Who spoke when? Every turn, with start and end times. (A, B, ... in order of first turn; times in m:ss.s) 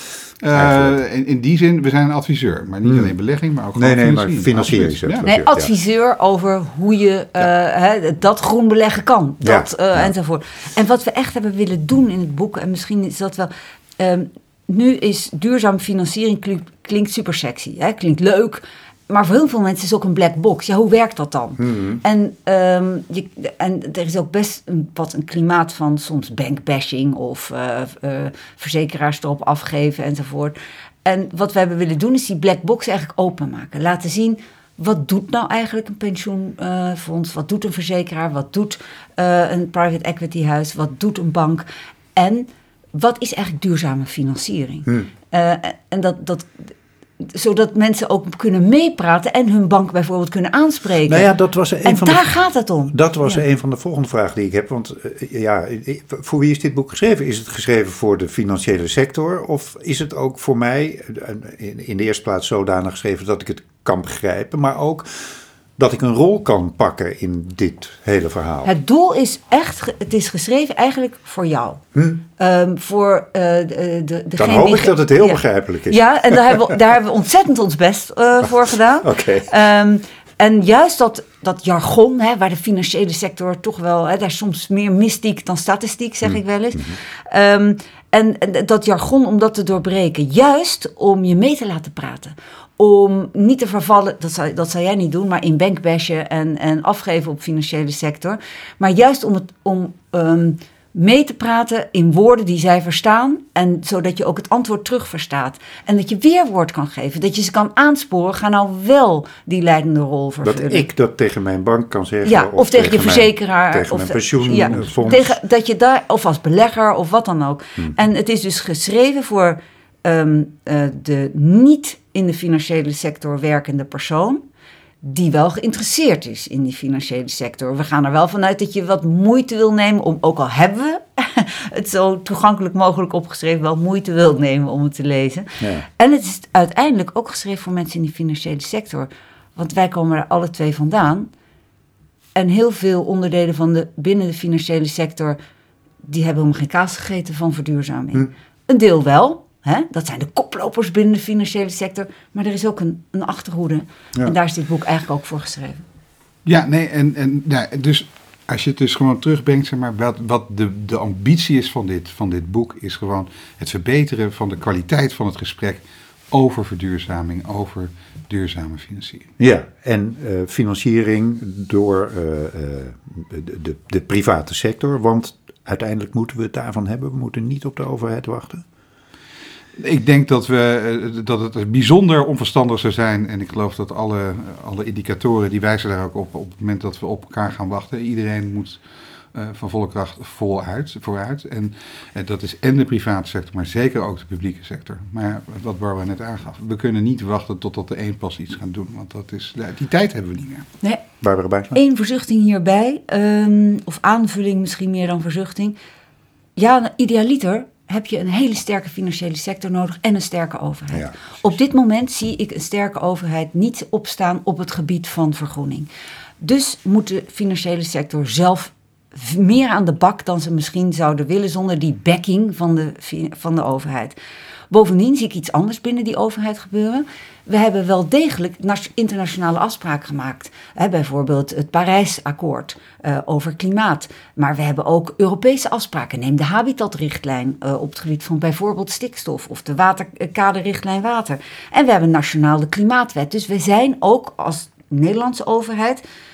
0:00.4-0:05.3 A
0:00.5-0:01.0 B
0:02.8-0:03.1 B
0:03.8-0:05.7 B
0:05.2-0:51.3 C
0:09.4-0:10.1 B
0:21.6-0:22.0 B
0:51.0-0:52.4 B
0:51.8-0:53.4 C
0:52.9-1:05.1 B
1:05.8-1:08.7 B
1:08.6-1:11.8 C
1:12.0-1:12.2 B
1:12.4-1:50.9 C
1:14.4-1:16.7 B
1:19.0-1:19.5 B
1:50.4-1:55.3 B
1:52.2-2:04.4 C
1:54.6-1:55.1 A
2:05.0-2:21.3 C
2:22.4-2:25.4 C
2:26.0-2:35.8 C
2:36.4-2:49.3 A
2:49.4-2:58.6 B
2:59.8-3:08.8 A
3:09.3-3:20.7 A
3:21.2-3:21.8 B
3:21.7-3:25.8 C
3:26.6-3:35.9 C
3:30.9-3:31.4 B
3:36.4-3:44.2 C
3:44.7-4:06.0 C